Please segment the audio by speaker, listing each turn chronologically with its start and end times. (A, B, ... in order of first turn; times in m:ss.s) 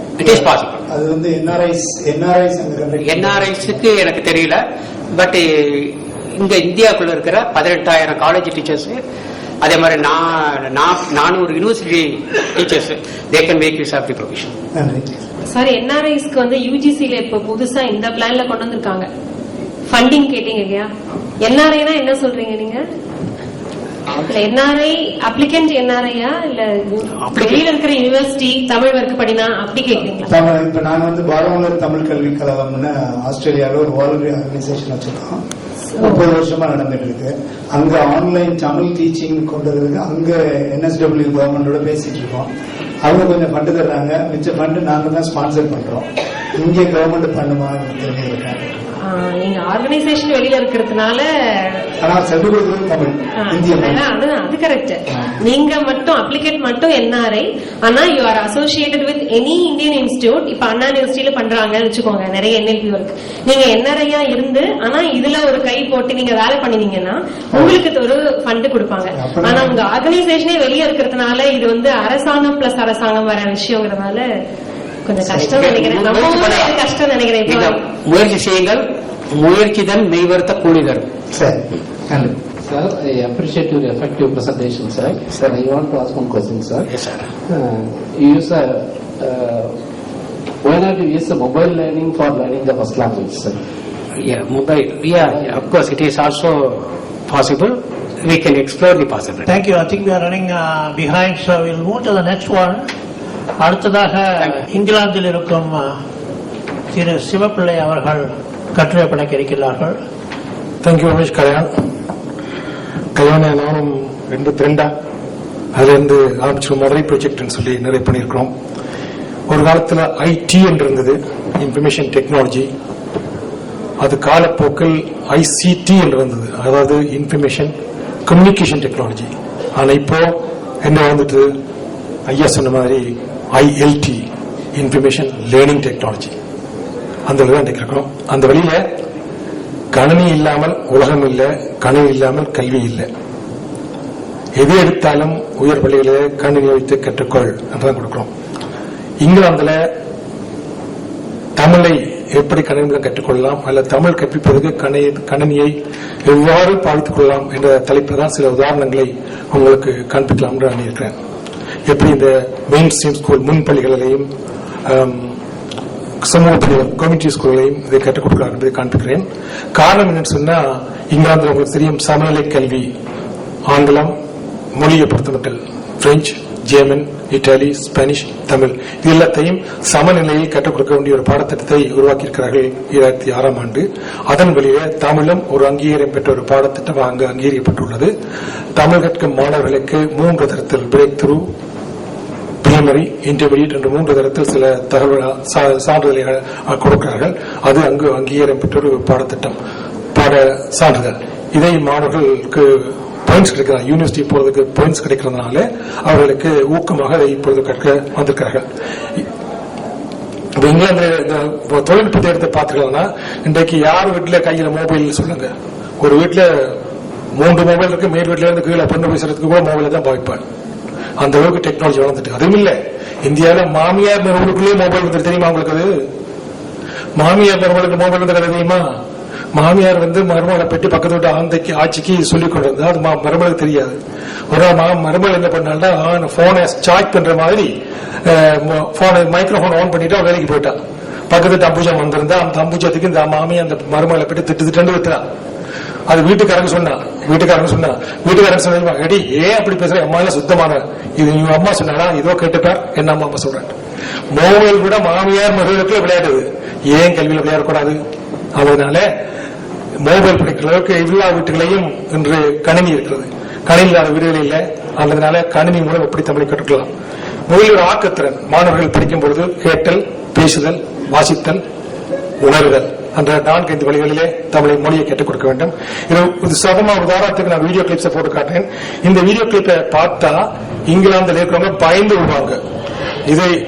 0:00.2-0:00.8 A
0:00.2-0:03.8 B
0:03.0-0:04.6 A
0:05.1-0:09.0 A
0:09.6-0:14.5 A
0:14.7-0:15.2 B
0:15.5-0:19.1 C
0:19.9-0:20.9 C
0:21.4-0:22.8 C
0:24.1-0:30.3 C
0:27.2-0:27.6 A
0:30.2-0:35.4 B
0:36.0-0:36.2 C
0:36.0-0:42.5 B
0:43.0-0:48.7 B
0:49.0-0:51.8 C
0:52.0-0:54.0 B
0:53.5-1:14.2 C
1:07.5-1:07.8 B
1:09.2-1:09.8 B
1:15.0-1:17.8 C
1:15.2-1:15.5 B
1:15.5-1:16.8 A
1:17.4-1:21.1 A
1:21.3-1:22.3 B
1:22.7-1:26.8 D
1:26.9-1:27.3 A
1:27.6-1:29.7 D
1:30.7-1:33.6 D
1:34.2-1:39.5 A
1:39.4-1:42.8 E
1:43.6-1:46.0 E
1:46.9-1:50.0 E
1:50.8-1:51.7 F
1:53.1-1:54.9 F
1:55.7-1:58.5 F
1:59.5-2:02.6 F
2:04.0-2:07.7 F
2:08.3-2:10.2 F
2:10.8-2:11.5 F
2:12.3-2:13.0 F
2:13.5-2:14.2 F
2:14.8-2:16.3 F
2:17.3-2:18.8 F
2:19.9-2:23.0 F
2:24.6-2:28.3 F
2:29.2-2:29.7 F
2:31.6-2:35.7 F
2:36.2-2:41.1 F
2:41.9-2:44.2 F
2:44.9-2:45.3 F
2:46.2-2:50.6 F
2:51.1-2:52.8 F
2:53.7-2:54.1 F
2:54.8-3:08.1 F
3:08.8-3:11.4 F
3:12.6-3:19.5 F
3:20.1-3:28.6 F
3:30.6-3:35.5 F
3:36.0-3:36.4 F
3:37.4-3:40.4 F
3:41.2-3:45.9 F
3:47.2-3:48.8 F
3:49.5-3:53.9 F
3:54.5-3:57.7 F
3:58.2-4:00.7 F
4:01.3-4:05.2 F
4:06.1-4:13.7 F
4:14.3-4:18.0 F
4:18.5-4:19.0 F
4:20.0-4:26.9 F
4:27.5-4:31.6 F
4:32.4-4:42.6 F